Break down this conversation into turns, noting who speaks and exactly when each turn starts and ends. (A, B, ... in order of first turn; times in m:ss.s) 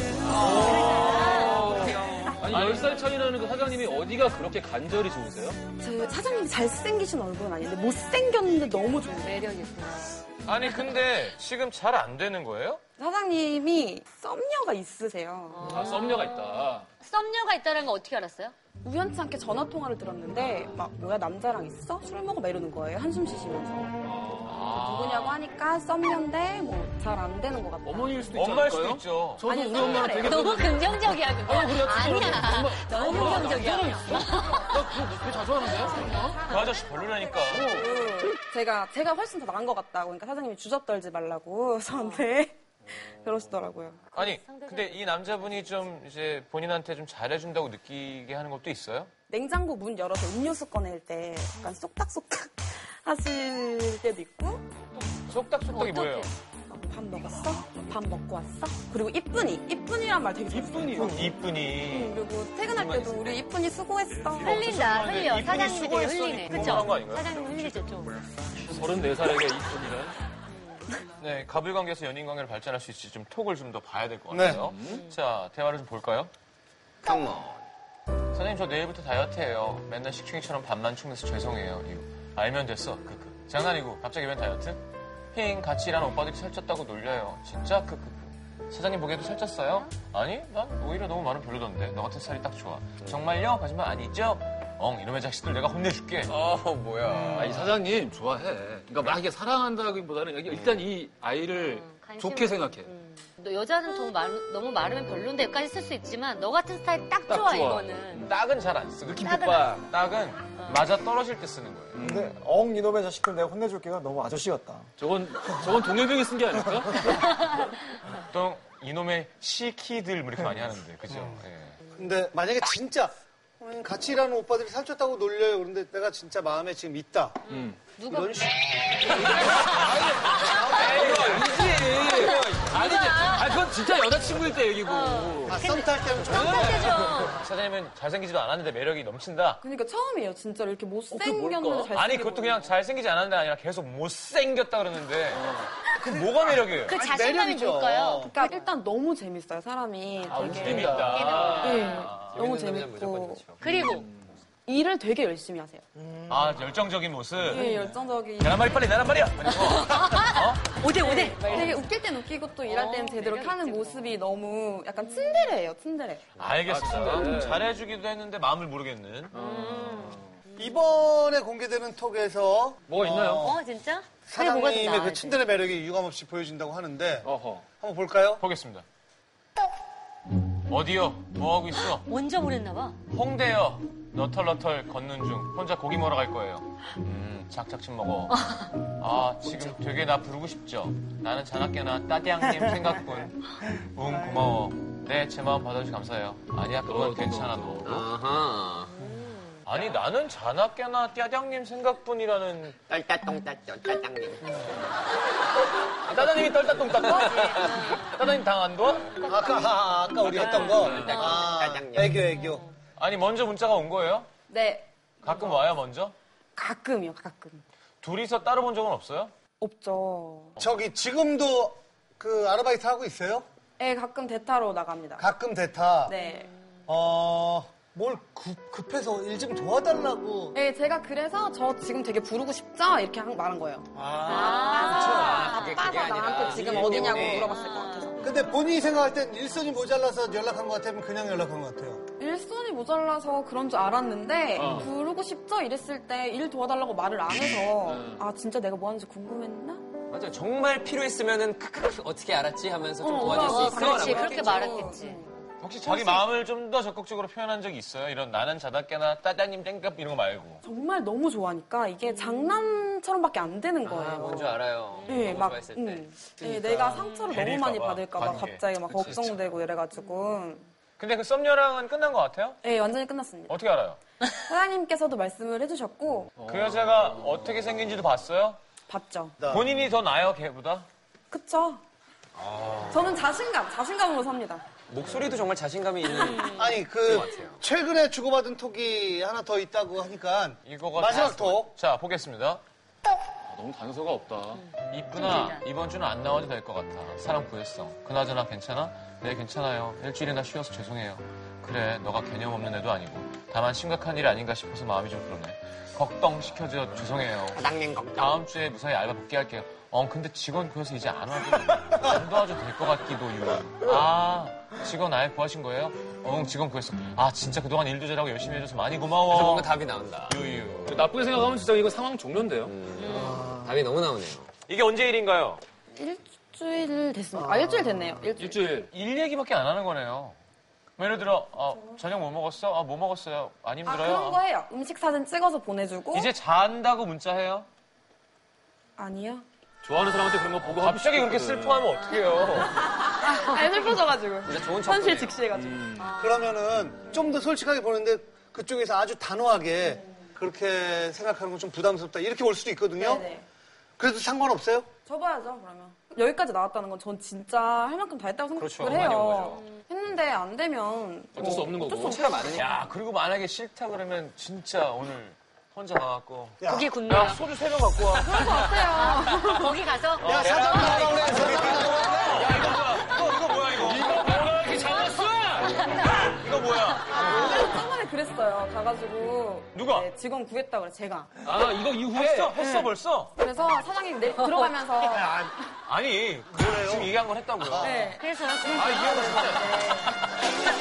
0:00.2-0:05.6 A
0:00.3-0:03.0 B
0:00.4-0:01.9 C
0:00.5-0:01.0 D
0:05.8-0:09.4 D
0:09.2-0:10.2 C
0:10.4-0:12.8 B
0:13.0-0:15.9 D
0:15.5-0:18.6 C
0:15.6-0:16.8 A
0:18.8-0:24.0 D
0:20.4-0:20.7 A
0:24.0-0:24.7 A
0:24.4-0:25.4 B
0:24.6-0:28.4 D
0:27.8-0:36.4 A
0:28.3-0:30.1 B
0:29.4-0:30.7 D
0:29.8-0:34.7 C
0:32.9-0:34.8 D
0:35.7-0:44.1 D
0:36.5-0:37.8 B
0:37.5-0:37.9 A
0:41.9-0:42.2 C
0:44.1-0:49.1 B
0:44.2-0:45.8 C
0:49.3-0:54.6 D
0:55.3-0:56.3 B
0:55.7-0:56.3 C
0:56.7-1:04.7 D
1:00.5-1:01.3 A
1:01.0-1:03.4 B
1:04.4-1:08.3 C
1:04.4-1:07.3 B
1:08.6-1:10.1 A
1:10.5-1:11.0 C
1:11.2-1:16.3 B
1:14.3-1:14.6 E
1:14.5-1:15.0 A
1:14.9-1:15.1 C
1:17.0-1:17.6 F
1:18.3-1:36.4 B
1:36.3-1:37.5 F
1:37.0-1:42.9 A
1:37.2-1:37.7 B
1:41.5-1:48.3 C
1:47.3-1:48.4 A
1:48.2-1:52.0 B
1:49.0-1:49.9 A
1:49.2-1:49.8 C
1:50.6-1:50.8 C
1:51.9-1:52.4 A
1:52.0-1:54.9 G
1:55.0-1:57.3 A
1:58.3-2:01.8 B
2:01.1-2:01.4 E
2:01.9-2:07.4 E
2:07.5-2:08.8 C
2:07.5-2:07.8 A
2:08.1-2:09.3 E
2:09.1-2:15.6 A
2:09.4-2:09.8 C
2:10.5-2:11.2 E
2:10.5-2:11.2 C
2:11.9-2:13.6 C
2:14.8-2:17.4 C
2:15.4-2:17.3 E
2:17.4-2:19.6 B
2:19.6-2:22.7 D
2:21.1-2:21.9 A
2:21.9-2:27.0 B
2:25.3-2:25.7 A
2:26.0-2:28.3 E
2:26.9-2:28.7 C
2:28.3-2:33.8 D
2:30.3-2:31.9 A
2:30.3-2:32.4 B
2:30.9-2:32.1 C
2:32.1-2:33.6 F
2:33.6-2:34.1 C
2:33.7-2:34.4 A
2:34.6-2:35.8 D
2:36.0-2:36.4 G
2:36.3-2:37.8 B
2:37.4-2:38.8 D
2:38.4-2:40.6 B
2:39.5-2:41.8 C
2:40.9-2:46.3 D
2:41.5-2:41.8 A
2:42.6-2:44.2 C
2:45.1-2:45.4 C
2:46.4-2:49.3 B
2:46.6-2:47.7 A
2:49.3-2:50.4 A
2:49.3-2:50.8 C
2:50.6-2:53.6 E
2:52.9-2:53.5 A
2:53.4-2:55.5 C
2:54.3-2:57.3 E
2:57.2-2:57.6 A
2:57.8-2:58.4 E
2:58.4-2:58.8 B
3:00.7-3:02.0 B
3:02.0-3:03.0 C
3:03.1-3:08.4 B
3:08.3-3:08.7 C
3:09.0-3:18.0 B
3:16.8-3:18.0 A
3:17.8-3:19.0 F
3:19.0-3:19.5 C
3:19.6-3:22.8 B
3:22.9-3:24.8 F
3:26.0-3:29.2 B
3:26.1-3:27.1 F
3:27.0-3:28.2 C
3:29.2-3:32.6 E
3:30.3-3:31.5 C
3:30.3-3:32.2 F
3:30.7-3:31.2 A
3:32.3-3:32.7 C
3:33.0-3:34.3 B
3:34.5-3:35.6 D
3:35.2-3:36.1 B
3:36.6-3:37.6 D
3:38.0-3:39.3 B
3:39.6-3:40.6 D
3:40.6-3:43.4 E
3:43.8-3:45.2 D
3:45.2-3:46.1 E
3:46.0-3:46.5 D
3:46.2-3:46.6 C
3:46.9-3:50.6 E
3:50.5-3:58.3 D
3:53.9-3:55.4 E
3:54.2-3:55.9 C
3:54.8-3:57.5 F
3:57.2-3:58.3 C
3:58.2-4:02.0 E
4:02.2-4:09.8 D
4:04.5-4:04.9 A
4:07.8-4:08.2 A
4:10.1-4:14.7 F
4:13.0-4:15.2 C
4:13.0-4:16.3 D
4:15.6-4:20.6 B
4:20.6-4:30.6 D
4:23.8-4:27.0 F
4:24.9-4:25.4 C
4:26.8-4:29.1 B
4:28.9-4:29.2 A
4:31.0-4:32.6 B
4:32.6-4:33.6 D
4:33.5-4:34.0 B
4:34.4-4:36.3 D
4:36.4-4:37.1 A
4:36.5-4:38.6 B
4:38.9-4:39.4 D
4:39.4-4:39.7 E
4:39.5-4:40.9 B
4:41.3-4:41.8 D
4:42.4-4:43.2 F
4:42.9-4:44.6 D
4:44.9-4:47.6 F
4:46.1-4:46.8 C
4:46.5-4:51.7 E
4:50.6-4:52.6 B
4:53.5-4:54.6 A
4:54.9-5:07.6 B
4:55.1-4:55.6 C
5:07.5-5:08.4 F
5:08.2-5:21.1 B
5:19.3-5:20.4 F
5:20.9-5:22.8 A
5:22.6-5:24.5 F
5:23.0-5:23.5 C
5:24.7-5:25.6 B
5:25.9-5:28.6 D
5:28.4-5:28.9 A
5:28.9-5:30.4 B
5:31.0-5:34.4 B
5:31.7-5:32.0 D
5:33.8-5:36.3 D
5:36.1-5:37.7 B
5:39.0-5:39.4 D
5:39.8-5:42.0 A
5:40.6-5:42.8 B
5:42.0-5:42.6 C
5:42.8-5:46.0 D
5:44.4-5:45.5 F
5:45.5-5:46.1 A
5:46.0-5:46.6 C
5:46.1-5:53.2 E
5:53.0-5:53.4 D
5:54.0-5:54.9 E
5:55.0-6:02.2 D
5:58.6-5:59.6 F
5:58.9-5:59.2 B
6:01.4-6:02.2 A
6:01.4-6:02.7 F
6:02.5-6:08.8 B
6:06.6-6:06.9 E
6:06.6-6:07.4 C
6:08.1-6:09.8 D
6:08.9-6:11.9 C
6:10.2-6:12.5 E
6:10.2-6:14.2 B
6:10.4-6:12.1 F
6:13.8-6:16.1 A
6:15.7-6:16.4 C
6:16.2-6:17.3 B
6:16.9-6:17.8 C
6:17.1-6:21.3 D
6:19.7-6:20.1 B
6:21.4-6:22.6 A
6:22.1-6:23.3 B
6:22.6-6:25.5 D
6:24.4-6:24.7 C
6:25.0-6:25.5 E
6:25.9-6:28.0 B
6:26.5-6:28.1 E
6:27.8-6:30.1 D
6:28.2-6:29.8 C
6:28.7-6:29.7 B